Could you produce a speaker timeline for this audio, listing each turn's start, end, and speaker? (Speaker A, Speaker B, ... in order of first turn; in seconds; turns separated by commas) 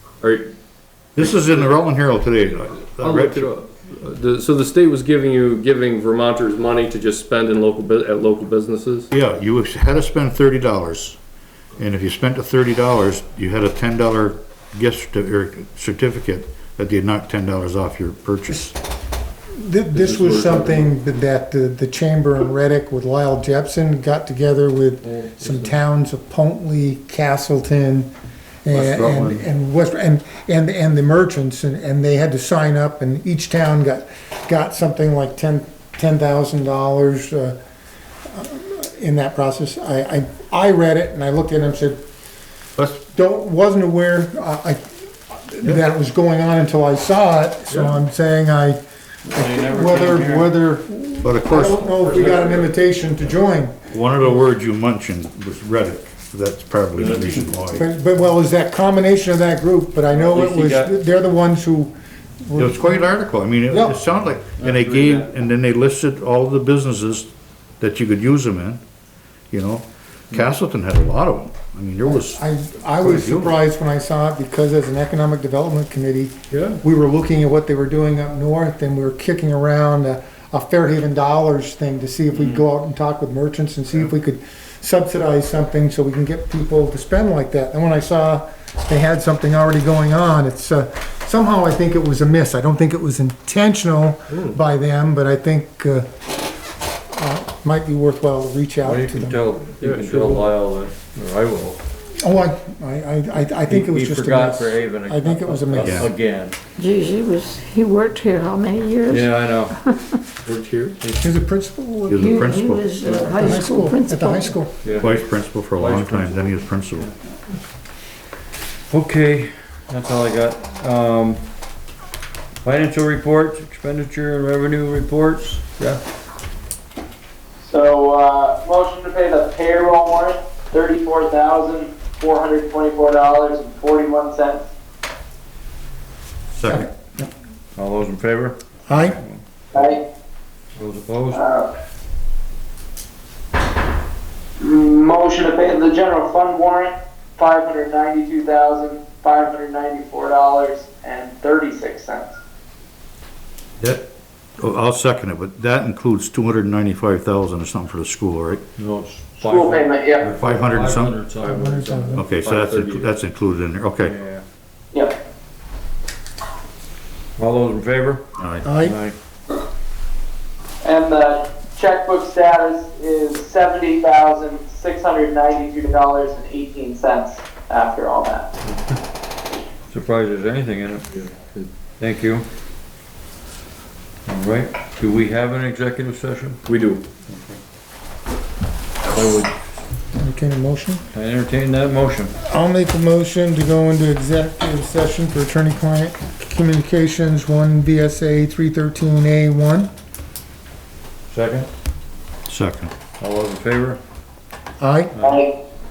Speaker A: 1.2-3.5, Speaker B: 3.0-9.1, Speaker A: 9.1-11.2, Speaker A: 11.8-18.8, Speaker C: 19.5-28.1, Speaker B: 19.9-20.9, Speaker C: 28.6-37.6, Speaker D: 28.7-29.4, Speaker C: 38.3-42.0, Speaker A: 42.8-43.0, Speaker C: 43.1-44.8, Speaker C: 45.5-48.8, Speaker D: 49.3-50.6, Speaker C: 49.3-53.8, Speaker A: 51.2-51.9, Speaker D: 52.0-52.4, Speaker A: 53.9-57.9, Speaker D: 57.0-57.3, Speaker C: 57.8-63.1, Speaker D: 60.1-60.9, Speaker A: 62.6-68.8, Speaker C: 63.7-64.0, Speaker D: 64.6-65.3, Speaker A: 69.5-72.4, Speaker C: 72.0-96.1, Speaker A: 73.0-73.6, Speaker D: 82.3-82.6, Speaker C: 97.1-99.4, Speaker D: 98.8-101.8, Speaker B: 99.8-100.5, Speaker C: 102.2-106.1, Speaker D: 103.7-106.6, Speaker A: 105.8-106.1, Speaker E: 106.8-109.3, Speaker D: 109.1-109.8, Speaker B: 110.5-111.0, Speaker C: 111.2-114.8, Speaker A: 112.1-113.0, Speaker E: 112.2-114.6, Speaker D: 114.8-115.1, Speaker A: 115.0-117.1, Speaker D: 115.8-116.3, Speaker D: 118.9-121.4, Speaker D: 122.6-126.0, Speaker F: 127.6-134.7, Speaker A: 136.6-136.9, Speaker C: 136.7-137.3, Speaker D: 137.8-139.4, Speaker C: 138.9-139.2, Speaker F: 139.7-140.0, Speaker D: 140.8-141.4, Speaker F: 141.3-141.7, Speaker F: 144.6-152.4, Speaker A: 153.8-154.1, Speaker A: 154.6-158.6, Speaker D: 158.8-163.0, Speaker F: 159.4-160.3, Speaker A: 160.3-161.2, Speaker C: 161.4-162.3, Speaker A: 162.2-164.1, Speaker B: 162.6-163.1, Speaker D: 164.0-164.4, Speaker D: 167.4-168.2, Speaker A: 168.4-168.7, Speaker C: 168.7-169.0, Speaker D: 168.8-169.2, Speaker F: 170.8-178.5, Speaker D: 179.9-181.2, Speaker D: 182.0-182.5, Speaker D: 184.3-186.6, Speaker B: 186.7-187.0, Speaker D: 189.1-189.5, Speaker C: 190.2-191.0, Speaker D: 191.1-192.4, Speaker C: 192.4-199.9, Speaker D: 201.3-201.7, Speaker A: 202.5-202.9, Speaker D: 203.2-204.0, Speaker C: 204.8-205.1, Speaker D: 205.2-205.5, Speaker F: 205.2-205.5